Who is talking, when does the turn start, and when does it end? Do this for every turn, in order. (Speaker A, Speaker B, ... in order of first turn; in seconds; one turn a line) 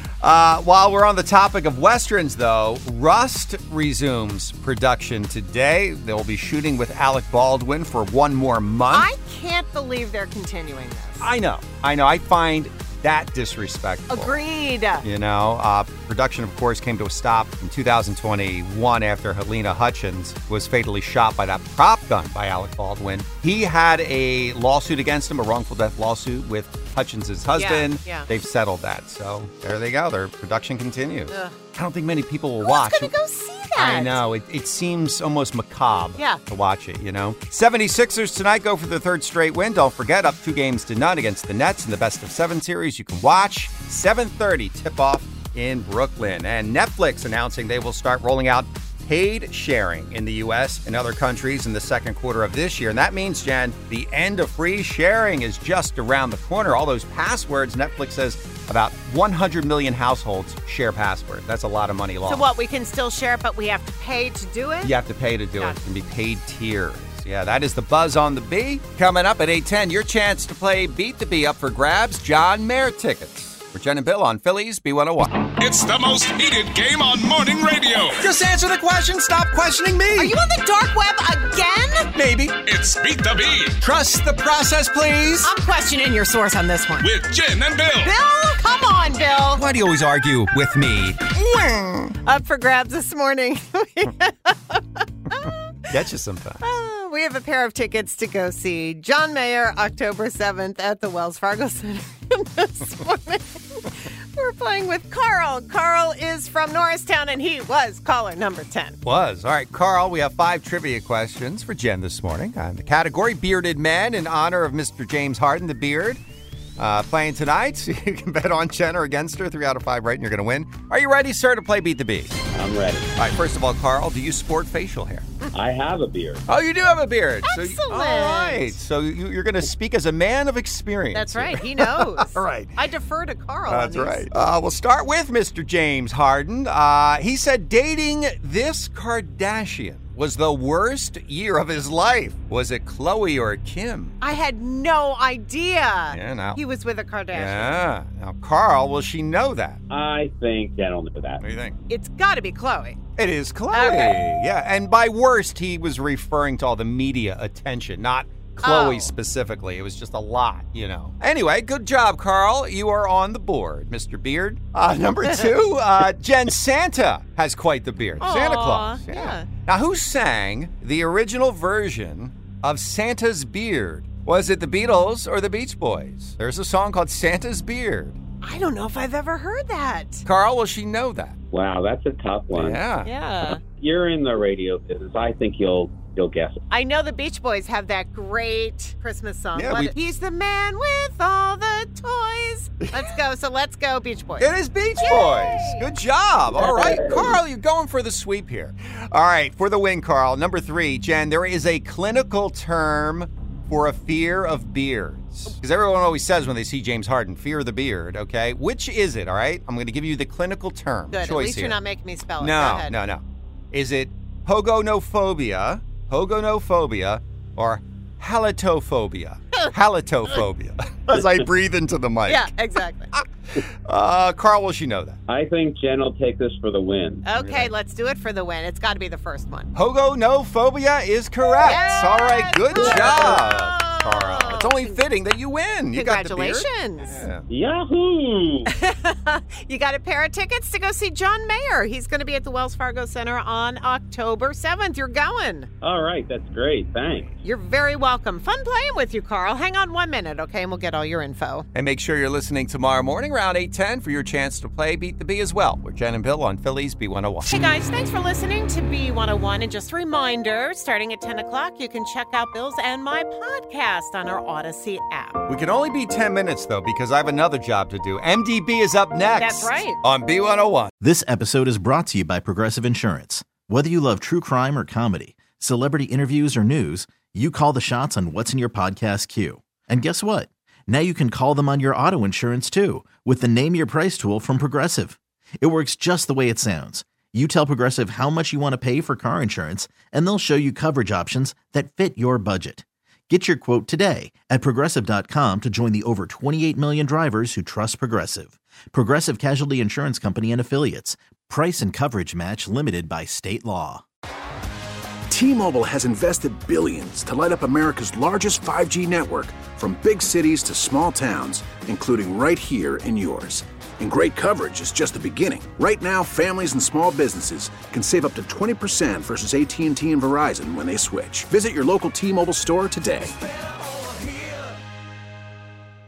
Speaker A: 0.2-9.1
Speaker B: 8.9-11.3
Speaker A: 11.2-14.4
Speaker B: 14.1-15.1
Speaker A: 15.0-33.1
Speaker B: 27.5-28.3
Speaker B: 31.3-31.6
Speaker B: 32.6-34.2
Speaker A: 33.7-62.5
Speaker B: 62.2-64.9
Speaker A: 64.8-75.5
Speaker C: 75.6-78.3
Speaker A: 78.1-80.3
Speaker B: 80.2-82.1
Speaker A: 82.1-82.6
Speaker C: 82.7-83.8
Speaker A: 83.8-85.5
Speaker B: 85.4-87.1
Speaker C: 87.0-88.1
Speaker B: 88.0-89.6
Speaker A: 89.5-92.1
Speaker B: 92.2-95.5
Speaker A: 95.9-96.6
Speaker B: 96.6-109.0
Speaker A: 109.0-116.2
Speaker A: 116.8-122.3
Speaker D: 122.5-123.1
Speaker A: 123.2-125.3
Speaker D: 125.5-126.5
Speaker A: 126.5-132.8
Speaker B: 127.4-128.8
Speaker B: 131.1-134.3
Speaker A: 133.7-144.2
Speaker B: 144.2-147.7
Speaker A: 146.1-146.6
Speaker A: 147.3-149.8
Speaker D: 149.9-151.4
Speaker A: 151.4-151.7
Speaker B: 151.9-153.0
Speaker A: 153.2-178.2
Speaker B: 153.7-154.2
Speaker B: 158.6-159.1
Speaker B: 168.2-169.5
Speaker B: 178.4-180.2
Speaker A: 180.2-181.3
Speaker D: 181.5-182.8
Speaker A: 182.5-183.6
Speaker B: 183.0-183.6
Speaker D: 183.8-186.6
Speaker B: 186.7-195.8
Speaker A: 189.5-189.9
Speaker A: 192.8-193.1
Speaker A: 194.4-211.8
Speaker D: 196.6-197.4
Speaker B: 211.1-212.9
Speaker A: 212.4-222.5
Speaker B: 222.3-223.1
Speaker A: 223.9-225.2
Speaker D: 225.3-227.2
Speaker B: 227.2-229.7
Speaker A: 227.3-227.7
Speaker A: 229.7-237.4
Speaker B: 231.6-235.0
Speaker D: 232.8-233.1
Speaker B: 235.9-237.2
Speaker D: 237.5-238.7
Speaker B: 238.7-245.7
Speaker D: 245.8-247.3
Speaker B: 247.4-251.7
Speaker A: 251.7-257.5
Speaker B: 257.4-265.4
Speaker A: 265.5-270.9
Speaker B: 269.3-270.0
Speaker E: 271.0-304.0
Speaker F: 305.3-323.3